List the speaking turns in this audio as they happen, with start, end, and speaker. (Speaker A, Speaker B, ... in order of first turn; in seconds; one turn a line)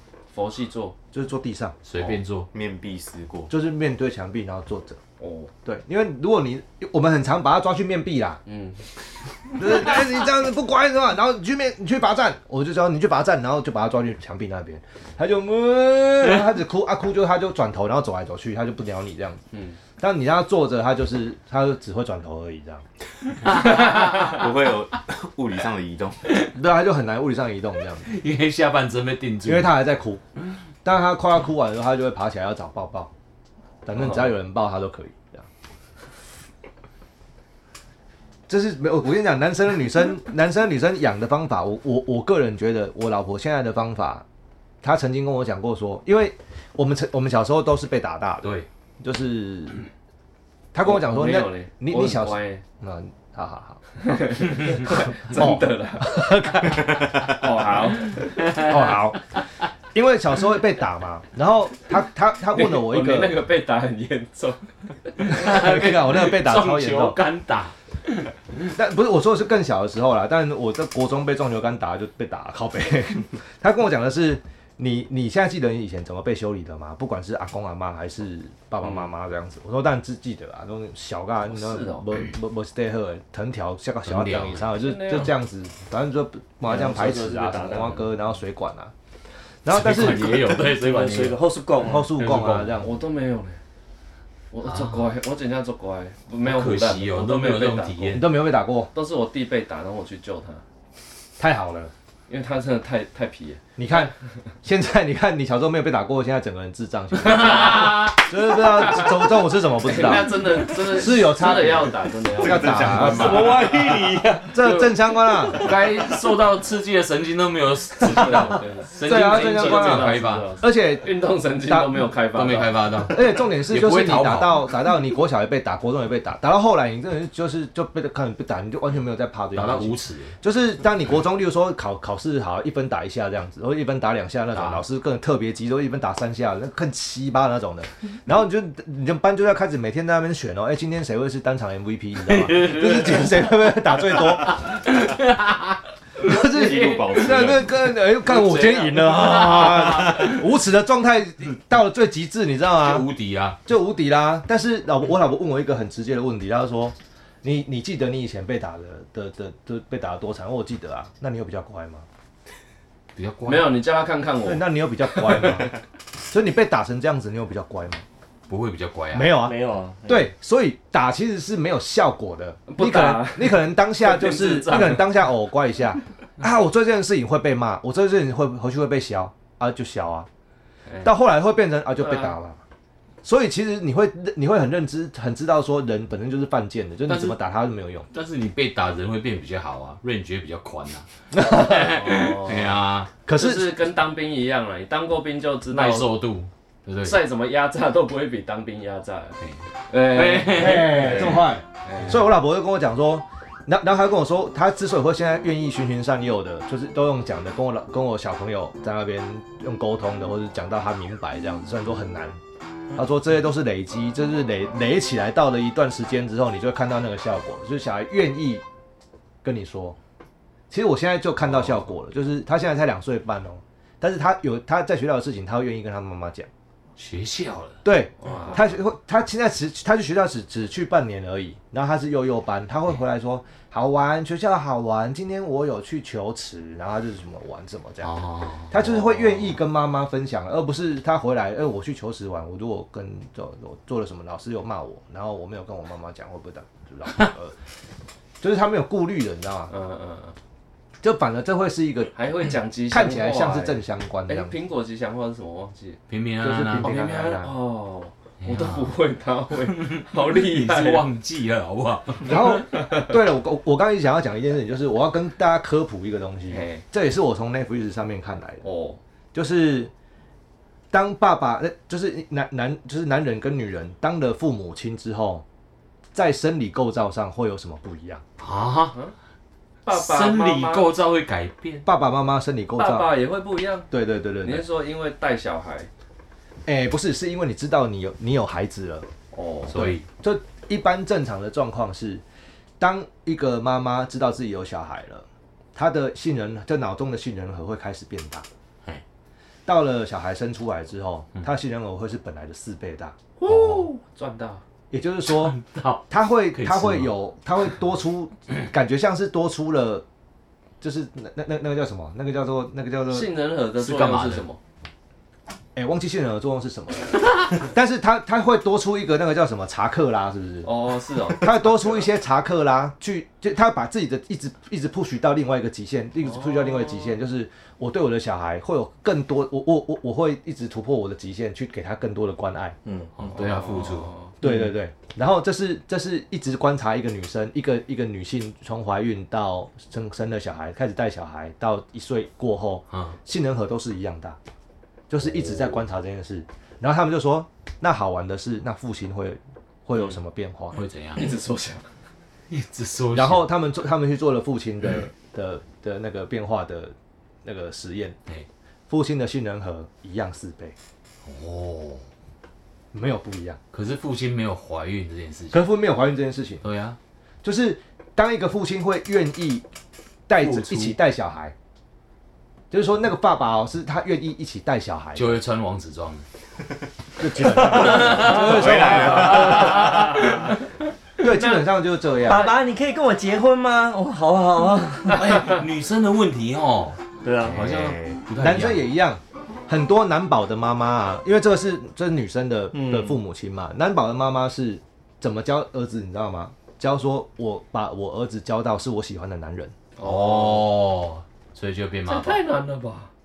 Speaker A: 0.3-1.0
Speaker B: 1.1-1.8
Speaker C: 1.9-2.5
Speaker D: 2.5-3.5
Speaker B: 3.5-5.0
Speaker A: 5.2-5.5
Speaker B: 5.6-8.4
Speaker A: 8.4-8.8
Speaker B: 9.5-19.4
Speaker A: 19.5-19.8
Speaker B: 20.0-22.8
Speaker C: 23.3-24.4
Speaker D: 23.9-26.2
Speaker B: 26.5-28.1
Speaker C: 28.0-29.7
Speaker B: 29.4-30.2
Speaker B: 30.8-33.1
Speaker B: 33.9-35.5
Speaker A: 33.9-34.3
Speaker B: 38.5-44.2
Speaker B: 44.8-49.9
Speaker B: 50.7-57.5
Speaker A: 50.8-52.6
Speaker A: 54.0-58.2
Speaker B: 58.4-59.2
Speaker B: 59.9-63.4
Speaker A: 62.5-64.6
Speaker C: 65.2-67.7
Speaker B: 65.3-67.2
Speaker B: 68.7-88.9
Speaker A: 81.5-82.1
Speaker C: 84.0-84.7
Speaker A: 84.7-85.3
Speaker E: 86.7-88.1
Speaker B: 89.6-90.4
Speaker C: 89.7-91.4
Speaker A: 89.9-91.4
Speaker E: 90.7-92.1
Speaker B: 91.8-93.0
Speaker C: 92.2-92.8
Speaker A: 92.8-93.6
Speaker A: 94.5-98.3
Speaker C: 94.7-95.0
Speaker C: 96.4-98.3
Speaker B: 98.1-98.9
Speaker A: 98.9-100.6
Speaker B: 101.4-101.9
Speaker A: 102.3-104.1
Speaker B: 103.8-113.6
Speaker A: 107.2-109.1
Speaker A: 109.8-116.4
Speaker D: 112.3-114.0
Speaker C: 113.0-113.6
Speaker B: 114.5-115.7
Speaker C: 115.5-120.5
Speaker A: 118.0-123.0
Speaker B: 119.0-121.1
Speaker B: 121.6-122.1
Speaker C: 122.3-124.7
Speaker B: 123.1-144.7
Speaker C: 129.5-130.3
Speaker C: 134.5-134.8
Speaker C: 142.2-143.4
Speaker C: 144.1-145.8
Speaker B: 146.2-153.1
Speaker D: 146.3-147.7
Speaker C: 146.8-147.1
Speaker C: 148.2-150.4
Speaker C: 152.8-153.6
Speaker B: 153.6-162.1
Speaker C: 163.2-163.8
Speaker A: 163.4-164.6
Speaker B: 164.4-165.7
Speaker B: 166.3-168.0
Speaker C: 168.5-169.4
Speaker B: 169.1-180.3
Speaker E: 169.4-170.3
Speaker A: 172.7-175.1
Speaker B: 181.0-182.6
Speaker A: 182.0-182.3
Speaker B: 183.2-188.1
Speaker C: 187.1-187.3
Speaker C: 188.1-193.1
Speaker B: 191.3-192.0
Speaker A: 192.0-192.8
Speaker B: 193.2-193.8
Speaker A: 193.3-196.1
Speaker C: 195.7-197.2
Speaker A: 197.0-199.4
Speaker C: 199.4-201.4
Speaker A: 199.9-202.3
Speaker B: 200.4-212.4
Speaker B: 212.9-218.6
Speaker B: 219.4-220.0
Speaker B: 220.7-226.5
Speaker C: 227.0-227.8
Speaker B: 227.8-238.2
Speaker A: 228.2-228.6
Speaker C: 238.0-239.6
Speaker B: 238.7-247.5
Speaker B: 248.4-249.7
Speaker A: 249.7-250.3
Speaker B: 251.0-252.1
Speaker A: 252.2-256.0
Speaker B: 252.9-254.6
Speaker C: 256.1-256.9
Speaker B: 256.4-257.5
Speaker A: 256.8-261.1
Speaker C: 258.4-258.9
Speaker C: 259.5-262.6
Speaker B: 262.2-268.6
Speaker A: 262.7-263.1
Speaker A: 266.5-266.8
Speaker A: 268.6-269.0
Speaker B: 269.3-269.9
Speaker B: 270.9-275.4
Speaker B: 276.1-278.2
Speaker C: 278.4-279.0
Speaker A: 279.9-280.9
Speaker C: 279.9-281.9
Speaker B: 281.8-283.1
Speaker A: 282.8-283.9
Speaker B: 283.9-284.6
Speaker A: 284.4-285.9
Speaker B: 286.6-289.1
Speaker A: 289.3-289.9
Speaker C: 289.6-290.0
Speaker B: 289.7-292.2
Speaker B: 292.8-298.4
Speaker B: 299.6-303.1
Speaker A: 303.4-304.6
Speaker C: 303.5-303.9
Speaker B: 304.9-305.6
Speaker C: 305.4-307.1
Speaker B: 306.1-310.0
Speaker B: 310.8-313.3
Speaker A: 313.1-314.6
Speaker C: 313.8-314.4
Speaker B: 315.8-320.7
Speaker A: 320.6-322.1
Speaker B: 321.4-332.8
Speaker A: 326.2-327.1
Speaker C: 333.1-334.2
Speaker A: 333.3-334.3
Speaker B: 334.4-344.4
Speaker E: 334.4-334.7
Speaker B: 345.1-350.8
Speaker C: 350.7-351.3
Speaker A: 351.1-351.9
Speaker C: 352.5-353.4
Speaker B: 353.1-358.1
Speaker B: 358.9-360.7
Speaker C: 361.2-362.0
Speaker B: 362.9-363.6
Speaker C: 363.7-365.6
Speaker B: 365.5-366.6
Speaker C: 366.6-367.0
Speaker B: 367.4-369.6
Speaker B: 370.3-371.5
Speaker C: 370.4-370.9
Speaker B: 372.7-375.4
Speaker C: 375.1-376.2
Speaker B: 377.2-380.1
Speaker C: 377.6-380.4
Speaker D: 378.6-379.9
Speaker A: 379.2-380.4
Speaker B: 381.2-382.5
Speaker A: 381.2-381.7
Speaker E: 382.2-385.3
Speaker C: 385.1-388.9
Speaker E: 387.2-387.8
Speaker D: 387.7-388.2
Speaker B: 388.4-399.7
Speaker E: 392.7-393.2
Speaker A: 400.0-400.7
Speaker C: 400.0-402.4
Speaker A: 402.1-403.1